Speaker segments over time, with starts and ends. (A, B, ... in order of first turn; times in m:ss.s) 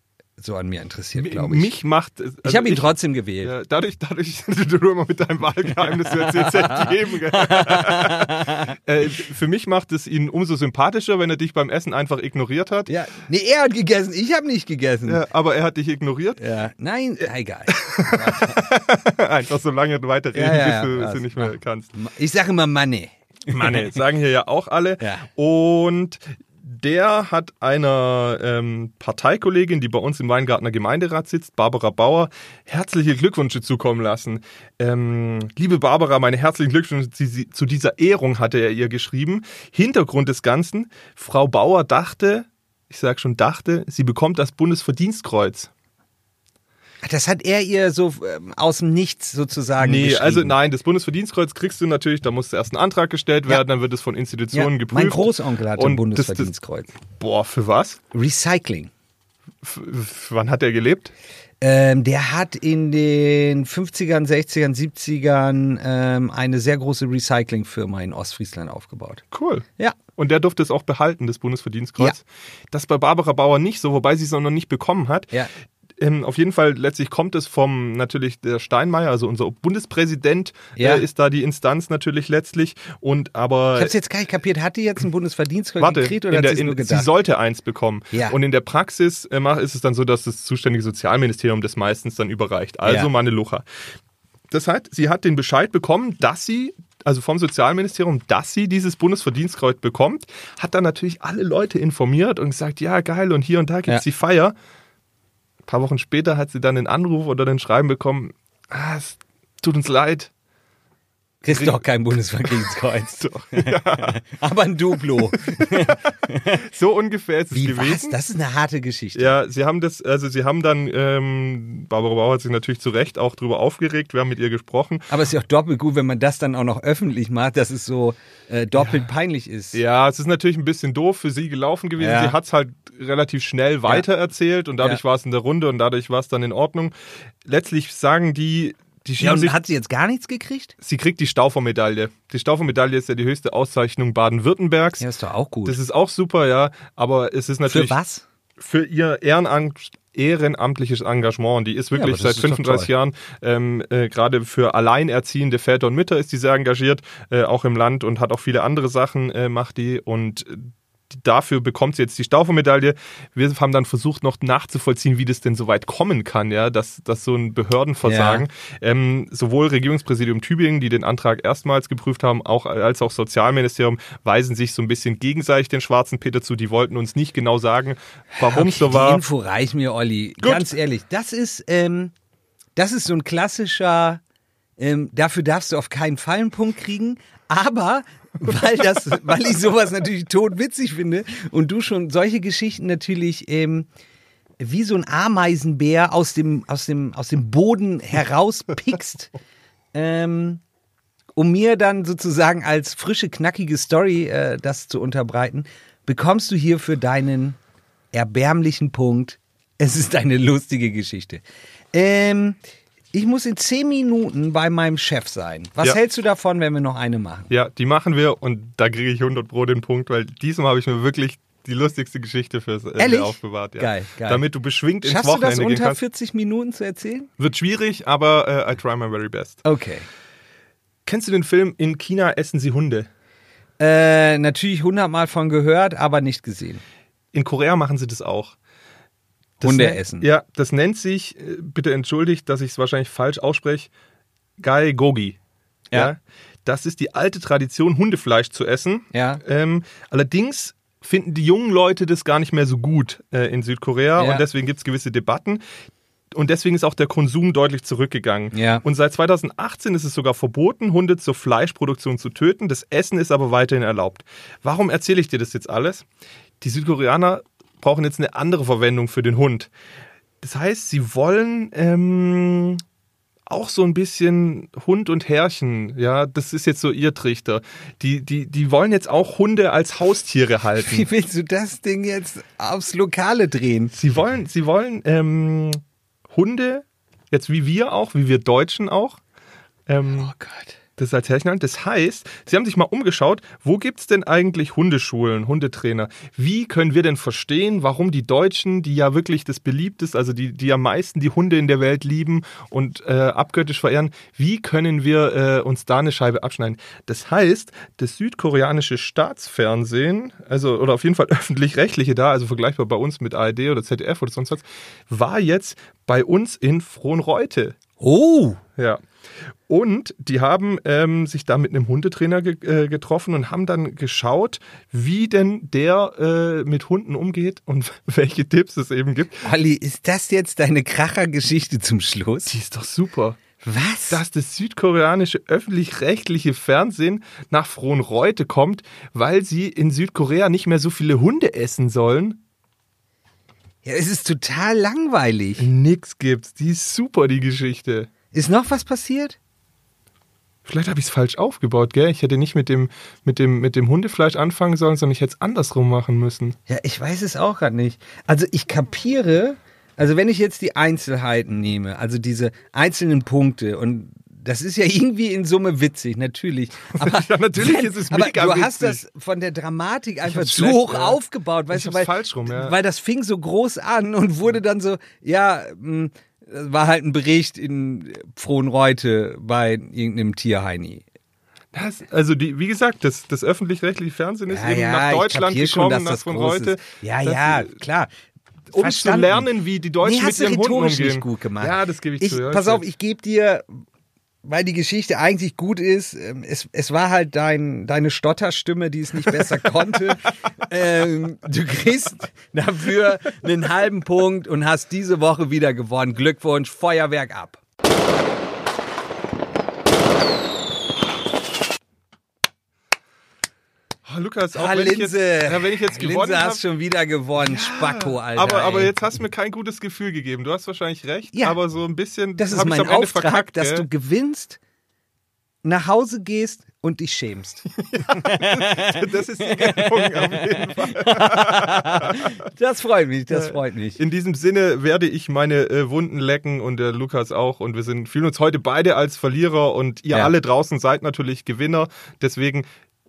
0:00.4-0:01.7 A
0:01.2-0:12.9 B
0:02.4-0:03.5 A
0:05.9-0:08.8 A
0:12.9-0:15.2 A
0:15.1-0:16.4 B
0:16.4-0:18.7 A
0:17.7-0:21.9 B
0:20.3-0:23.9 A
0:23.5-0:45.7 B
0:25.0-0:25.2 A
0:47.0-0:50.5 A
0:49.8-0:56.5 B
0:54.5-0:56.9 A
0:57.1-0:58.0 B
0:58.1-0:58.9 A
0:59.6-1:01.1 B
1:01.6-1:09.2 A
1:09.3-1:09.6 B
1:10.2-1:15.3 B
1:16.0-1:23.9 B
1:20.8-1:21.0 A
1:23.7-1:27.1 A
1:25.8-1:33.6 B
1:32.8-1:33.1 A
1:34.5-1:44.5 B
1:45.7-1:50.3 B
1:51.4-1:56.6 A
1:51.5-1:51.8 B
1:53.2-1:54.2 B
1:55.5-1:56.0 B
1:56.5-1:58.2 B
1:57.5-1:59.4 A
1:59.1-2:05.1 B
2:05.1-2:09.8 A
2:08.8-2:09.1 B
2:09.7-2:19.5 B
2:12.0-2:12.4 A
2:19.2-2:20.7 A
2:20.8-2:25.0 B
2:25.0-2:25.8 A
2:25.6-2:28.0 B
2:27.7-2:28.2 A
2:28.6-2:59.2 B
2:31.9-2:32.9 A
2:48.0-2:48.4 A
2:58.4-3:02.1 A
3:00.4-3:00.7 B
3:02.8-3:04.2 A
3:04.8-3:13.9 A
3:14.6-3:19.3 A
3:19.9-3:20.6 A
3:21.3-3:27.6 A
3:28.1-3:32.6 A
3:33.1-3:37.5 A
3:37.5-3:46.0 B
3:43.0-3:44.4 A
3:45.0-3:47.3 A
3:47.4-3:49.6 B
3:49.6-3:50.1 A
3:51.0-3:53.1 B
3:53.8-3:56.8 A
3:57.3-3:58.5 B
3:59.6-4:03.9 B
3:59.6-4:00.2 A
4:04.6-4:05.4 B
4:05.9-4:15.6 B
4:09.1-4:09.4 A
4:14.2-4:14.4 A
4:16.3-4:26.0 B
4:18.5-4:18.8 A
4:26.6-4:29.7 B
4:30.4-4:32.8 B
4:33.5-4:41.1 B
4:40.8-4:43.9 A
4:43.9-4:45.8 B
4:46.3-4:49.2 B
4:49.9-4:50.3 B
4:50.1-4:50.8 A
4:51.0-5:17.8 B
5:18.0-5:18.6 A
5:18.8-5:19.0 B
5:19.7-5:29.4 B
5:29.4-5:32.5 A
5:32.5-5:33.4 B
5:33.6-5:34.2 A
5:34.1-5:42.4 B
5:43.8-5:45.7 A
5:45.6-5:48.1 B
5:48.3-5:49.4 A
5:50.6-5:56.6 B
5:56.7-6:21.0 A
6:06.9-6:09.0 B
6:10.2-6:11.2 B
6:11.7-6:12.8 B
6:21.7-6:27.8 B
6:24.5-6:28.1 A
6:28.7-6:32.8 B
6:28.7-6:29.5 A
6:30.0-6:33.8 A
6:34.4-6:47.6 A
6:54.1-6:56.6 B
6:54.5-6:58.9 A
6:57.4-7:03.9 B
7:01.3-7:01.6 A
7:02.4-7:04.6 A
7:05.6-7:14.0 A
7:07.8-7:12.4 B
7:13.3-7:22.6 B